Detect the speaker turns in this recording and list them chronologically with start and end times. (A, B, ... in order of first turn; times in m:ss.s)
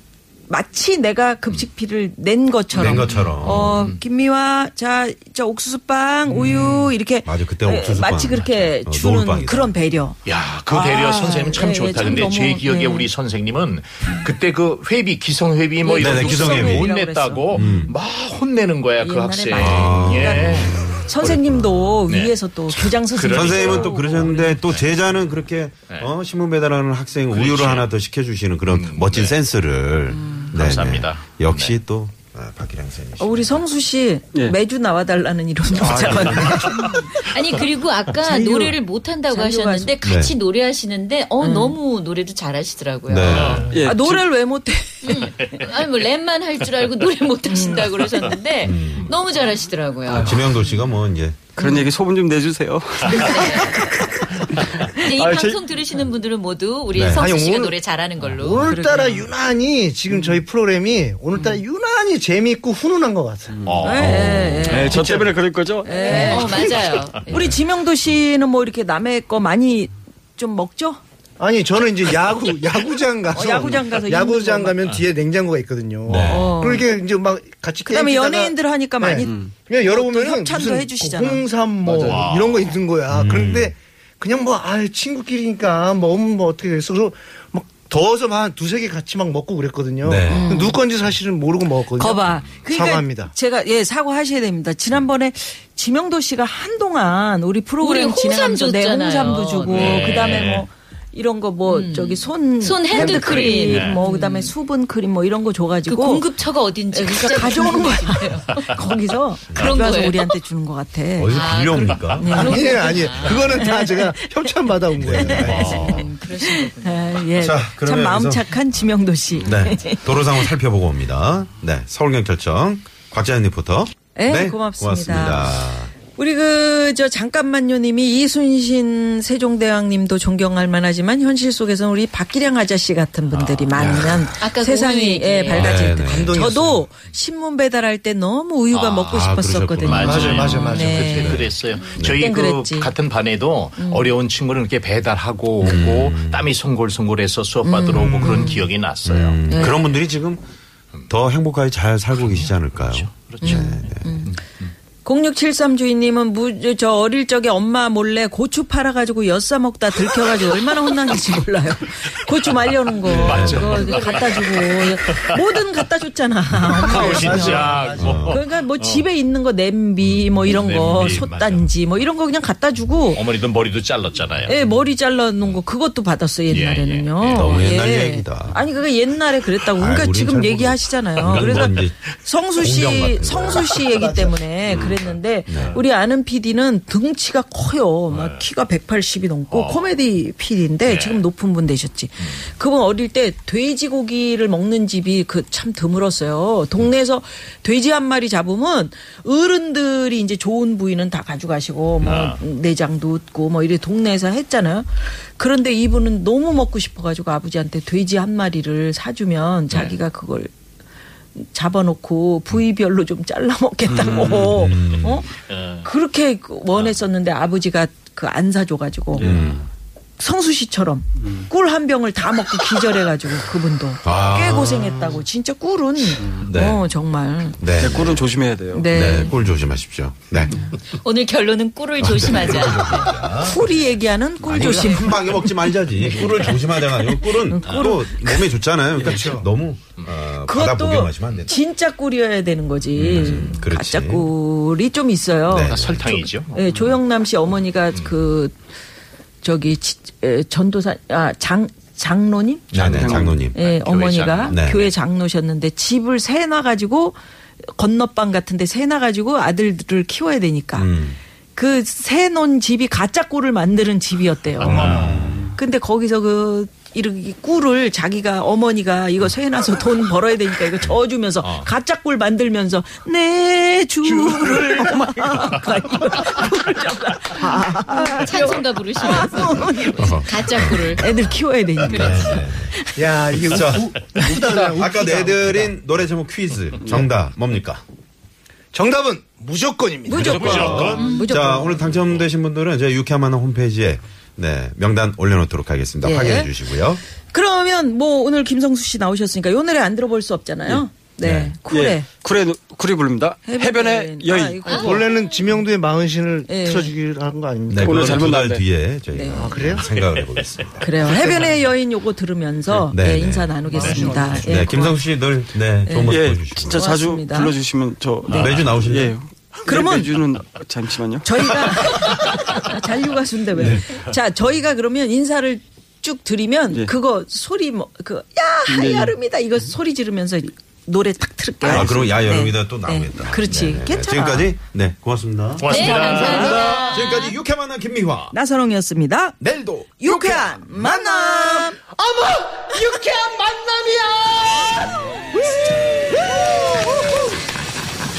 0:00.5-0:10.2 A
0:02.7-0:03.8 B
0:02.8-0:04.0 C
0:07.2-0:09.7 B
0:10.3-0:20.9 C
0:10.7-0:13.1 A
0:15.8-0:17.8 A
0:16.0-0:17.0 B
0:17.5-0:17.9 B
0:19.0-0:24.6 A
0:19.6-0:22.1 B
0:22.1-0:24.9 C
0:23.3-0:33.6 B
0:27.3-0:27.9 C
0:28.7-0:29.4 C
0:30.1-0:30.6 A
0:30.5-0:31.8 C
0:33.2-0:37.6 A
0:35.8-0:36.8 D
0:36.8-0:43.5 E
0:38.1-0:40.0 A
0:40.0-0:40.4 B
0:41.4-0:41.8 A
0:43.1-0:43.8 B
0:43.3-0:43.7 C
0:43.7-0:44.3 D
0:43.8-0:45.6 A
0:45.0-0:50.4 E
0:45.4-0:45.7 C
0:47.5-0:48.3 A
0:48.6-0:49.1 B
0:50.1-0:51.5 B
0:51.6-0:55.6 D
0:51.6-0:51.8 A
0:53.1-0:54.0 E
0:54.9-0:58.7 E
0:56.9-0:57.3 B
0:57.1-1:03.6 F
0:58.6-0:59.3 A
1:03.5-1:04.0 D
1:03.6-1:04.8 C
1:03.8-1:05.0 A
1:03.9-1:04.8 B
1:04.6-1:06.0 D
1:04.9-1:05.4 F
1:05.8-1:06.6 A
1:05.9-1:07.3 E
1:06.0-1:07.0 F
1:07.2-1:11.0 A
1:07.3-1:07.6 B
1:11.4-1:33.3 F
1:13.3-1:14.8 A
1:16.1-1:16.5 B
1:16.1-1:16.8 A
1:17.8-1:21.4 A
1:19.2-1:19.5 D
1:21.8-1:22.4 D
1:22.0-1:22.8 C
1:23.1-1:23.7 B
1:30.0-1:30.7 B
1:30.3-1:30.8 A
1:32.0-1:46.3 A
1:37.8-1:40.6 E
1:39.7-1:40.6 C
1:41.7-1:44.5 E
1:43.1-1:44.0 C
1:45.9-1:48.8 E
1:46.9-1:54.5 A
1:49.5-1:50.4 E
1:51.2-1:52.5 B
1:51.3-1:53.6 E
1:52.3-1:55.7 F
1:55.0-1:56.0 B
1:55.1-2:00.5 A
1:55.5-1:56.0 C
1:55.6-1:57.2 E
1:57.4-1:58.6 B
1:59.4-2:05.9 B
2:04.2-2:21.5 A
2:13.7-2:14.3 B
2:13.8-2:14.1 C
2:14.4-2:15.8 E
2:15.5-2:16.5 B
2:16.0-2:16.8 F
2:18.7-2:19.1 C
2:19.0-2:20.6 B
2:19.9-2:29.7 C
2:20.0-2:21.4 F
2:21.3-2:22.2 B
2:22.1-2:22.9 A
2:23.8-2:24.1 A
2:25.6-2:26.5 B
2:27.6-2:28.6 A
2:29.1-2:30.4 B
2:29.5-2:29.8 A
2:31.1-2:34.2 B
2:32.1-2:34.7 C
2:33.4-2:34.3 A
2:35.0-2:53.2 A
2:43.0-2:45.4 C
2:43.1-2:43.9 B
2:46.8-2:49.0 C
2:46.8-2:48.2 F
2:48.0-2:48.4 B
2:50.4-2:51.7 C
2:50.9-2:51.2 B
2:53.1-2:54.5 C
2:54.5-3:30.5 A
2:56.5-2:57.6 C
2:57.3-2:58.6 B
2:59.8-3:02.0 B
3:02.6-3:05.8 B
3:04.7-3:05.8 C
3:08.1-3:08.5 C
3:09.5-3:09.9 C
3:10.8-3:11.2 C
3:22.0-3:22.4 C
3:29.7-3:30.0 C
3:31.4-3:35.3 A
3:33.9-3:34.5 D
3:34.3-3:35.3 B
3:35.5-3:35.9 C
3:35.8-3:39.4 A
3:39.2-3:39.5 D
3:39.2-3:39.7 B
3:40.2-3:47.6 A
3:41.2-3:41.5 D
3:44.0-3:45.2 B
3:46.4-3:46.8 B
3:47.6-3:48.3 B
3:47.8-3:48.9 D
3:48.7-3:49.3 A
3:48.9-3:50.7 B
3:50.9-3:53.2 E
3:52.0-3:53.7 B
3:53.4-3:58.5 A
3:54.4-4:01.6 B
3:59.0-3:59.3 D
3:59.0-3:59.4 F
4:00.5-4:08.5 A
4:03.0-4:04.3 B
4:05.5-4:06.0 B
4:05.7-4:06.6 C
4:09.4-4:20.9 A
4:12.7-4:13.5 B
4:12.8-4:13.4 D
4:13.5-4:14.7 C
4:14.5-4:14.9 B
4:20.8-4:21.2 B
4:21.6-4:43.0 A
4:24.6-4:25.2 C
4:24.6-4:25.5 B
4:31.4-4:31.7 C
4:34.0-4:36.7 F
4:37.9-4:42.4 E
4:40.0-4:41.0 B
4:41.9-4:42.7 B
4:43.0-4:45.7 F
4:43.4-4:47.8 B
4:48.7-4:51.0 F
4:50.1-4:51.9 A
4:50.1-4:57.0 B
4:50.1-4:51.1 C
4:56.0-4:56.5 A
4:57.3-5:02.1 A
5:01.2-5:01.6 B
5:01.7-5:04.9 D
5:03.5-5:05.1 A
5:04.6-5:05.5 E
5:04.8-5:08.3 F
5:06.5-5:06.9 A
5:07.7-5:11.1 B
5:07.8-5:08.6 D
5:09.1-5:09.5 A
5:09.3-5:09.8 F
5:10.8-5:15.0 A
5:11.1-5:11.4 D
5:12.9-5:16.9 B
5:13.8-5:14.6 D
5:15.8-5:17.5 A
5:16.1-5:21.5 D
5:18.3-5:19.2 B
5:19.7-5:20.2 A
5:21.2-5:34.5 A
5:23.6-5:24.0 B
5:28.7-5:29.2 D
5:31.6-5:38.3 B
5:35.6-5:36.7 C
5:35.7-5:37.4 E
5:35.7-5:36.7 A
5:38.3-5:39.4 A
5:39.4-5:41.1 B
5:40.0-5:41.8 A
5:41.1-5:47.4 G